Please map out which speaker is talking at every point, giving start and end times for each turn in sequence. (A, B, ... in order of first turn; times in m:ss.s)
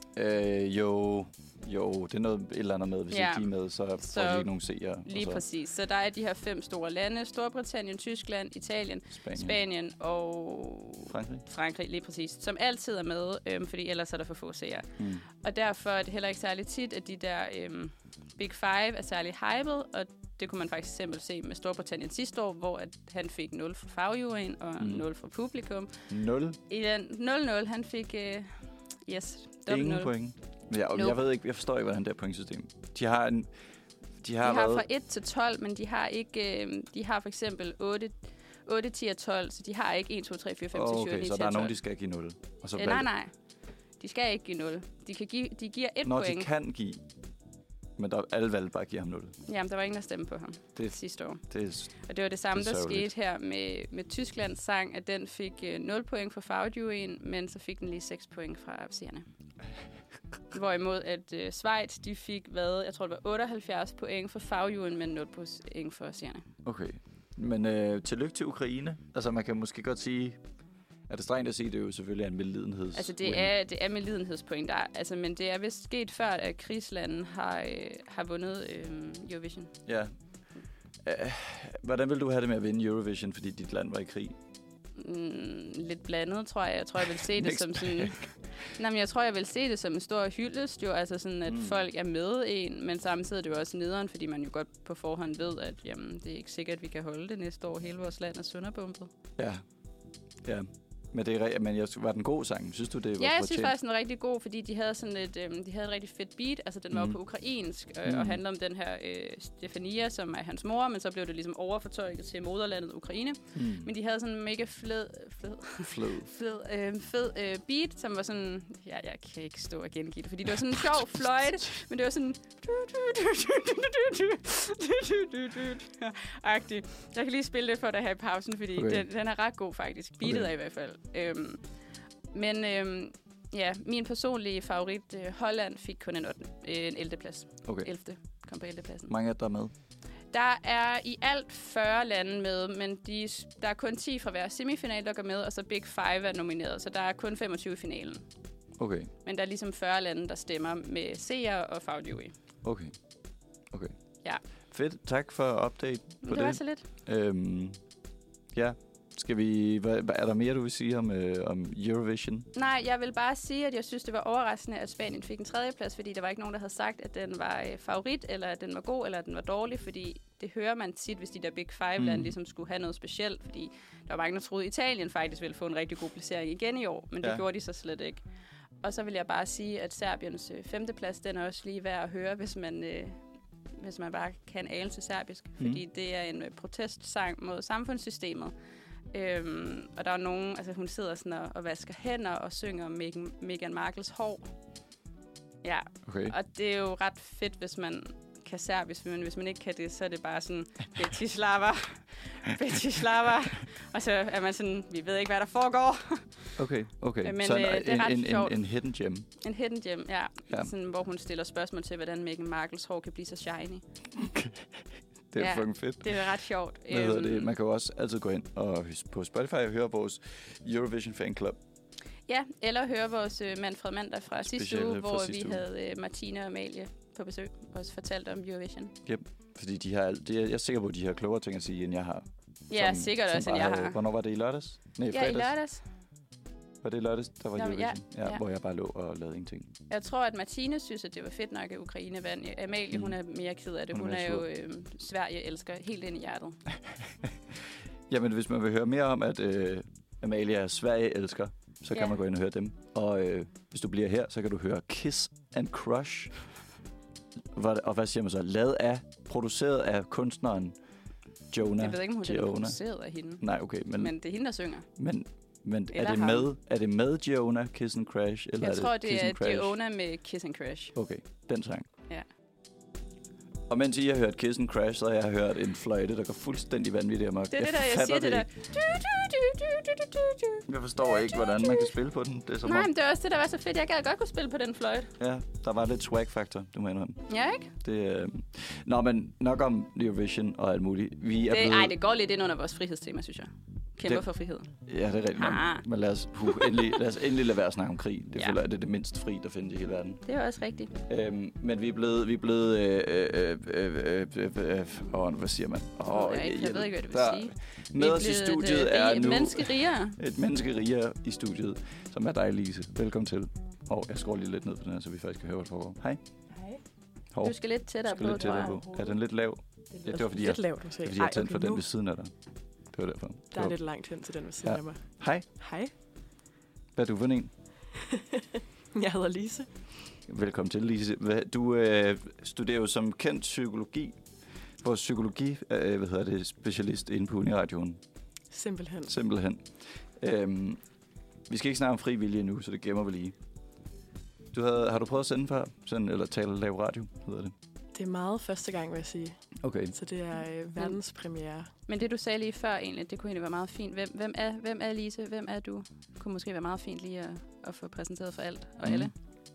0:00.1-0:05.4 A
0:03.1-0:04.5 B
0:05.0-0:25.9 B
0:09.1-0:09.6 A
0:11.1-0:11.4 A
0:15.0-0:15.2 A
0:26.1-0:26.6 A
0:26.7-0:30.1 B
0:29.7-0:33.5 A
0:34.2-0:34.8 A
0:34.4-0:41.7 B
0:40.7-0:43.1 A
0:42.8-0:43.3 B
0:44.0-0:46.5 B
0:46.0-0:47.0 A
0:48.0-0:49.3 A
0:49.4-0:51.4 B
0:50.8-0:51.9 A
0:51.9-0:59.2 B
0:52.5-0:53.1 A
1:00.5-1:06.5 B
1:06.6-1:10.4 A
1:11.1-1:13.5 A
1:12.9-1:19.7 B
1:19.8-1:20.1 A
1:21.0-1:24.4 A
1:25.0-1:39.1 B
1:27.0-1:28.3 A
1:31.5-1:31.8 A
1:39.4-1:39.6 A
1:40.4-1:43.7 A
1:43.2-2:11.6 B
1:46.9-1:47.2 A
1:48.0-1:48.4 A
1:53.5-1:53.9 A
1:55.8-1:56.3 A
2:08.7-2:09.0 A
2:10.2-2:10.5 A
2:12.3-2:19.1 B
2:19.1-2:19.7 A
2:20.3-2:28.2 B
2:28.8-2:29.1 A
2:29.2-2:32.3 B
2:32.6-2:32.9 A
2:34.7-2:37.8 A
2:36.2-2:36.8 B
2:38.5-2:42.5 A
2:42.5-2:58.2 B
2:52.0-2:52.3 A
2:58.8-3:03.2 B
3:03.8-3:08.5 B
3:09.1-3:14.5 B
3:15.6-3:26.6 B
3:16.0-3:16.3 A
3:26.6-3:29.3 A
3:27.2-3:28.6 B
3:29.4-3:33.8 B
3:34.1-3:36.3 A
3:35.4-3:37.5 B
3:36.9-3:41.6 A
3:42.3-3:48.9 B
3:44.4-3:45.6 A
3:49.0-3:55.5 A
3:52.7-3:54.0 B
3:55.1-3:55.8 B
3:56.8-3:59.7 A
3:57.6-3:58.4 B
3:59.9-4:06.6 B
4:02.9-4:03.2 A
4:03.9-4:04.4 A
4:08.1-4:16.3 A
4:17.5-4:20.8 A
4:21.5-4:22.8 A
4:21.6-4:23.4 B
4:23.4-4:24.1 A
4:24.0-4:24.9 B
4:25.0-4:29.8 A
4:25.9-4:26.5 B
4:28.6-4:30.9 B
4:30.9-4:31.9 A
4:33.7-4:38.4 A
4:37.5-4:41.9 B
4:40.6-4:42.9 A
4:42.6-4:45.1 B
4:45.2-4:51.9 A
4:47.3-4:47.7 B
4:51.5-4:54.7 B
4:54.8-5:00.2 A
4:55.4-4:55.8 B
4:56.5-4:56.9 B
5:00.2-5:00.9 B
5:01.1-5:16.2 A
5:06.1-5:10.2 B
5:16.5-5:16.8 C
5:17.3-5:22.3 A
5:17.4-5:18.8 B
5:18.2-5:19.2 C
5:19.9-5:21.8 C
5:22.9-5:23.8 A
5:23.5-5:25.9 C
5:24.6-5:25.4 A
5:27.0-5:27.5 A
5:28.1-5:28.4 C
5:28.9-5:29.9 C
5:30.3-5:34.2 A
5:34.8-5:38.0 A
5:38.5-5:39.1 C
5:39.1-5:40.8 A
5:41.5-5:43.4 A
5:44.5-5:47.5 A
5:47.9-5:51.7 C
5:49.6-5:49.9 A
5:51.9-5:59.1 B
5:58.8-5:59.1 A